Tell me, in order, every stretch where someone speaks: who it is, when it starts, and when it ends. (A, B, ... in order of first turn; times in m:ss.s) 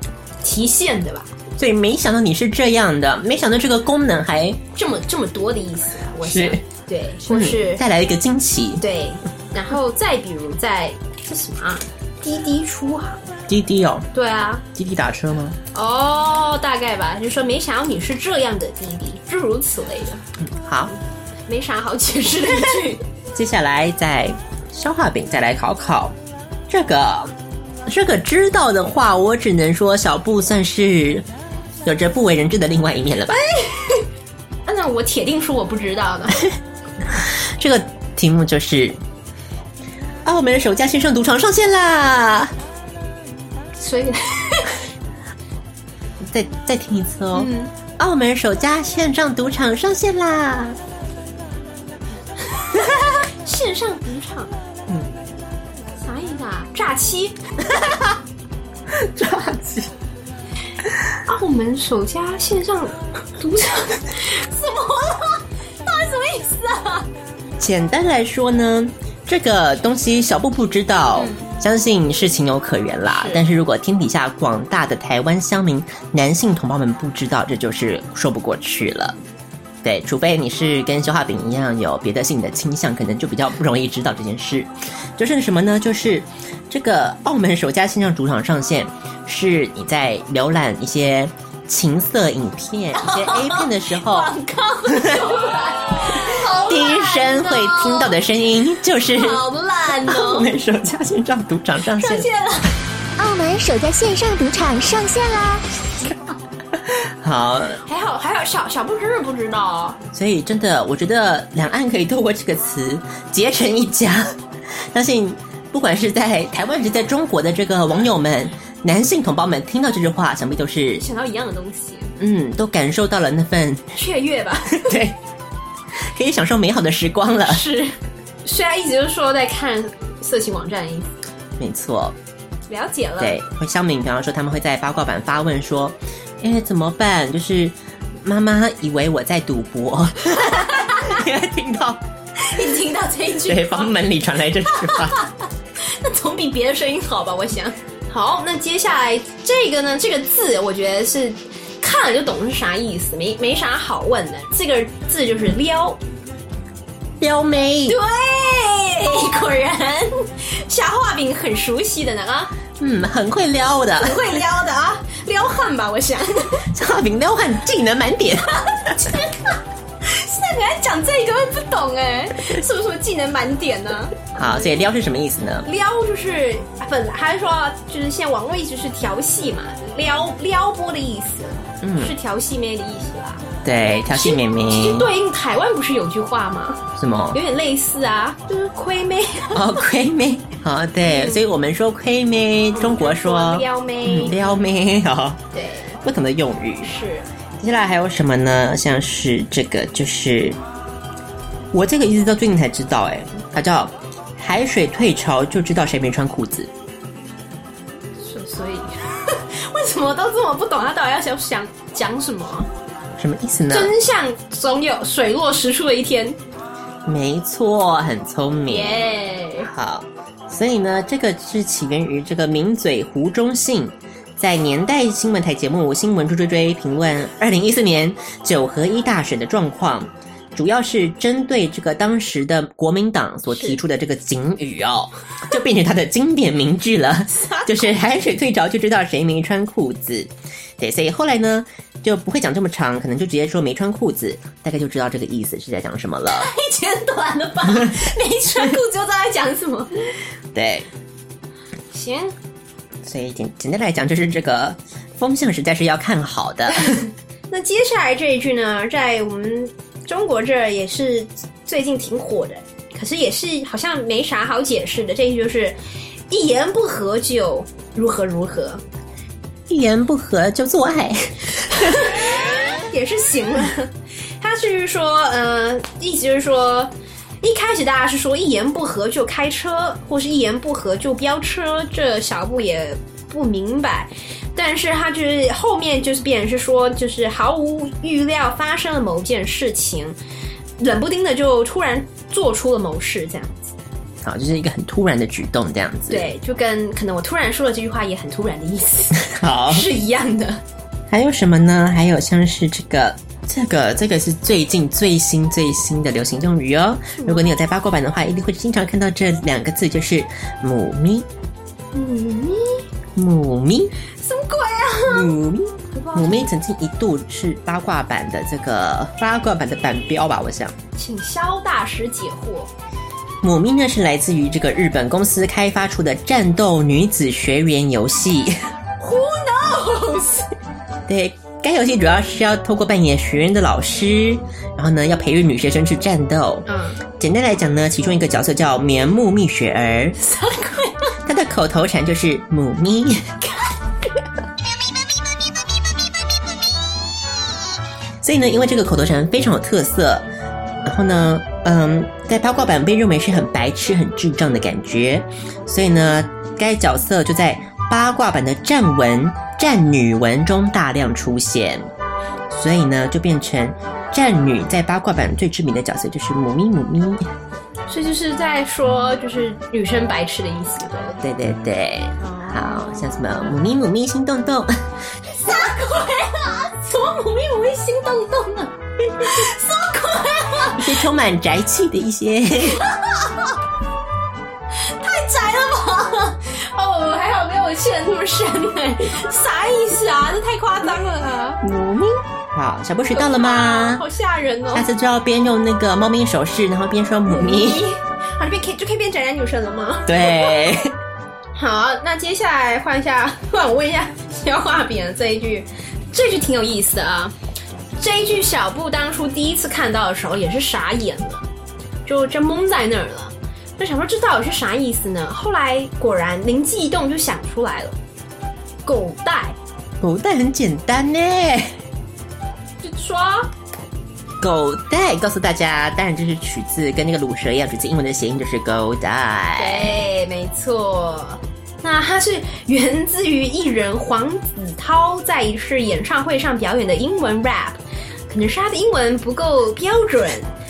0:00.4-0:01.3 A
0:01.6-0:04.6 B
0:04.7-0:07.8 A
0:06.2-0:06.6 B
0:07.3-0:08.8 B
0:08.8-0:13.3 A
0:13.5-0:14.1 B
0:14.1-0:14.6 A
0:14.8-0:15.6 B
0:15.7-0:20.2 A
0:20.4-0:20.9 B
0:21.5-0:23.0 A
0:23.4-0:26.2 B
0:26.7-0:27.3 B
0:27.9-0:31.3 B
0:31.8-0:33.4 B
0:33.3-0:34.0 A
0:34.7-0:36.4 A
0:37.1-0:39.0 B
0:40.2-0:42.5 B
0:43.8-0:44.8 A
0:46.2-0:50.8 B
0:47.3-0:47.7 A
0:52.5-0:54.5 A
0:56.0-0:57.4 A
0:58.9-0:59.9 B
1:01.3-1:07.1 A
1:07.6-1:19.2 B
1:11.2-1:11.5 A
1:13.1-1:13.4 A
1:19.8-1:34.3 B
1:33.0-1:38.2 A
1:34.9-1:35.4 B
1:36.0-1:39.4 B
1:39.1-1:40.5 A
1:40.0-1:42.3 B
1:42.0-1:42.8 A
1:43.2-1:45.6 C
1:46.8-1:47.8 B
1:47.8-1:50.0 A
1:50.1-1:54.4 B
1:54.9-2:01.0 B
2:01.0-2:02.1 A
2:02.2-2:04.0 B
2:04.0-2:05.0 A
2:04.7-2:05.2 B
2:06.0-2:07.6 B
2:07.4-2:11.2 A
2:11.6-2:12.2 B
2:12.7-2:13.4 A
2:13.2-2:22.0 B
2:20.4-2:21.2 A
2:22.4-2:24.0 A
2:23.4-2:25.2 B
2:24.7-2:36.0 A
2:37.2-2:38.0 B
2:37.9-2:42.5 A
2:42.8-2:44.2 B
2:44.0-2:46.7 A
2:46.7-2:49.0 B
2:48.6-2:54.8 A
2:54.4-2:55.7 B
2:55.7-3:03.4 A
3:01.8-3:02.1 B
3:03.6-3:05.1 B
3:04.1-3:09.8 A
3:07.0-3:07.4 B
3:09.5-3:15.4 B
3:11.0-3:11.4 A
3:12.7-3:14.5 A
3:15.5-3:16.0 A
3:16.0-3:16.9 B
3:16.8-3:17.3 A
3:17.6-3:20.6 B
3:21.7-3:26.7 B
3:28.2-3:32.7 A
3:33.2-3:33.9 B
3:33.7-3:36.4 A
3:37.0-3:39.1 B
3:38.7-3:39.7 A
3:39.6-4:06.5 B
3:53.5-3:53.8 A
3:57.3-3:58.0 A
4:06.3-4:09.9 A
4:10.5-4:10.9 B
4:11.9-4:12.4 A
4:13.0-4:17.0 B
4:17.5-4:25.8 A
4:26.3-4:28.8 A
4:29.7-4:32.1 B
4:31.7-4:50.2 A
4:50.8-4:53.7 A
4:54.2-4:56.3 B
4:56.1-5:00.6 A
4:59.3-4:59.9 B
5:01.1-5:11.3 B
5:07.2-5:07.5 A
5:11.9-5:12.8 A
5:13.2-5:13.9 B
5:14.2-5:15.3 A
5:15.1-5:20.8 B
5:15.9-5:16.5 A
5:21.0-5:22.7 A
5:23.4-5:28.7 B
5:29.0-5:30.6 A
5:31.1-5:40.2 B
5:36.7-5:37.0 A
5:40.2-5:41.2 A
5:41.3-5:43.3 B
5:43.4-5:43.7 A
5:48.2-5:50.3 B
5:50.8-6:01.9 B
6:02.5-6:07.3 B
6:07.9-6:11.2 A
6:11.2-6:14.8 B
6:12.2-6:13.1 A
6:15.3-6:20.9 A
6:20.6-6:22.8 B
6:22.8-6:23.5 A
6:24.8-6:31.6 A
6:31.6-6:34.0 B
6:33.1-6:34.9 A
6:34.7-6:37.9 B
6:37.3-6:40.5 A
6:40.1-6:40.9 B
6:41.6-6:47.3 A
6:48.0-6:51.4 A
6:52.1-6:58.0 A
6:58.8-6:59.6 A
7:00.0-7:01.8 B
7:02.8-7:03.5 A
7:04.4-7:10.0 B
7:09.6-7:20.5 A